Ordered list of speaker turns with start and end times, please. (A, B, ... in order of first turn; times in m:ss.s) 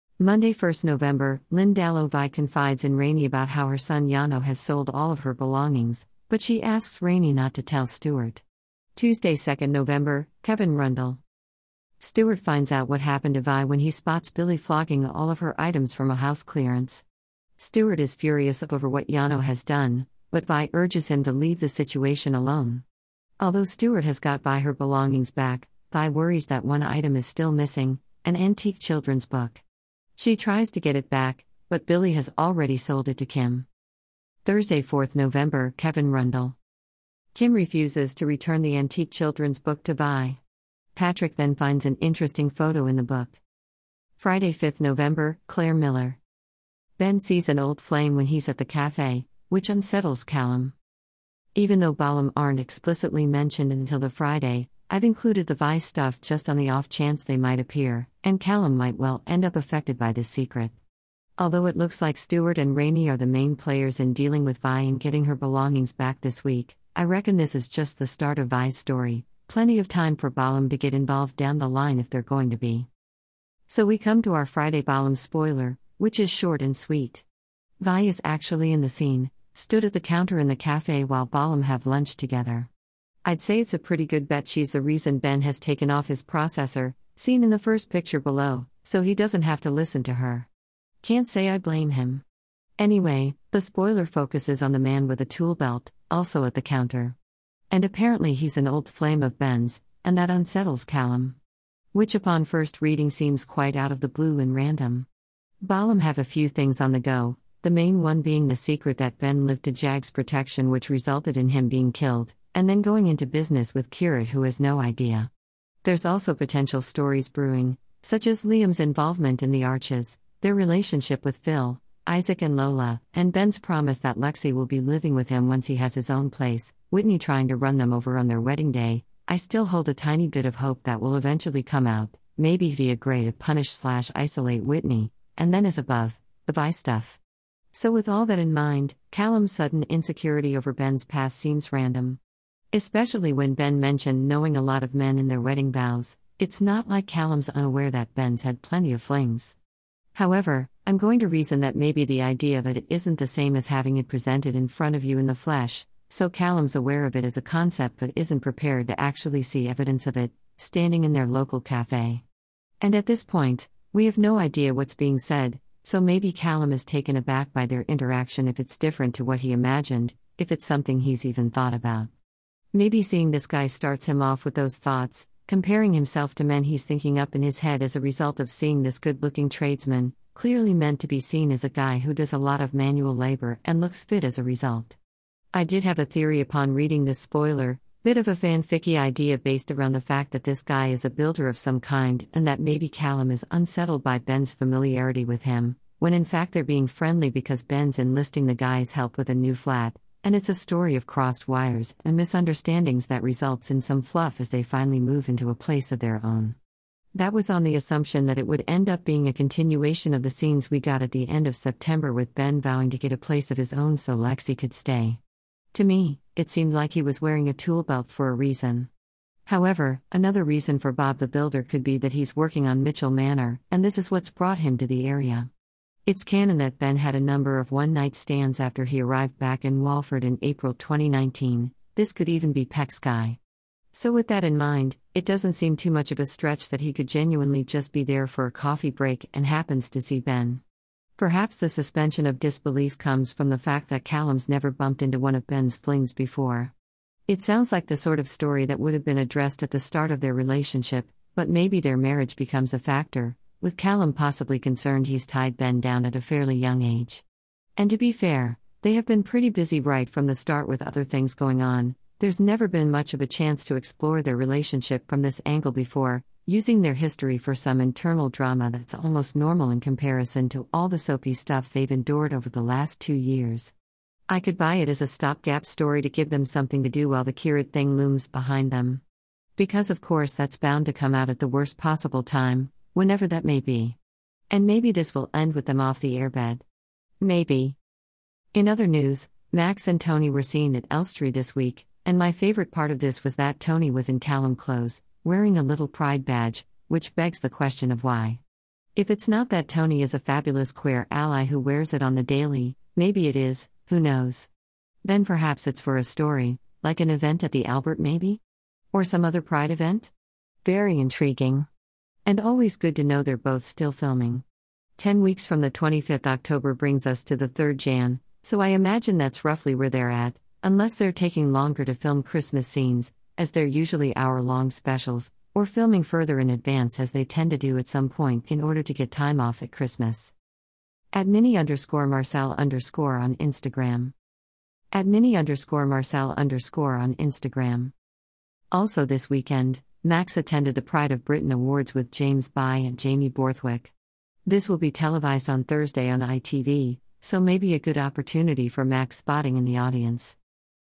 0:00.2-0:08.4 A
0:09.0-0:11.2 A
0:12.0-0:17.0 A
0:17.6-0:22.8 A
0:23.4-0:29.6 A
0:30.2-0:33.7 A
0:34.4-0:36.6 A
0:37.3-0:40.4 A
0:41.0-0:43.4 A
0:44.2-0:46.2 A
0:47.0-0:50.8 A
0:51.6-1:00.8 A
1:01.4-1:12.9 A
1:13.7-1:17.3 A
1:17.8-1:22.7 A
1:23.2-1:30.5 A
1:31.0-1:32.2 A
1:32.8-1:37.2 A
1:37.7-1:41.4 A
1:41.9-1:45.1 A
1:45.6-1:55.3 A
1:55.8-2:17.2 A
2:17.7-2:22.2 A
2:22.7-2:29.6 A
2:30.1-2:42.2 A
2:42.8-2:52.1 A
2:52.7-3:05.0 A
3:05.5-3:26.6 A
3:27.1-3:35.2 A
3:35.7-3:38.9 A
3:39.5-3:45.5 A
3:46.1-3:53.4 A
3:53.9-4:00.6 A
4:01.2-4:06.7 A
4:07.3-4:17.2 A
4:17.8-4:33.7 A
4:34.3-4:39.0 A
4:39.6-4:44.0 A
4:44.5-4:46.6 A
4:47.2-4:47.8 A
4:48.5-4:58.4 A
4:59.0-5:04.5 A
5:05.0-5:08.4 A
5:08.9-5:10.1 A
5:10.6-5:11.7 A
5:12.2-5:14.4 A
5:15.0-5:30.3 A
5:31.1-5:34.1 A
5:34.9-5:37.9 A
5:38.7-5:43.9 A
5:44.5-5:50.4 A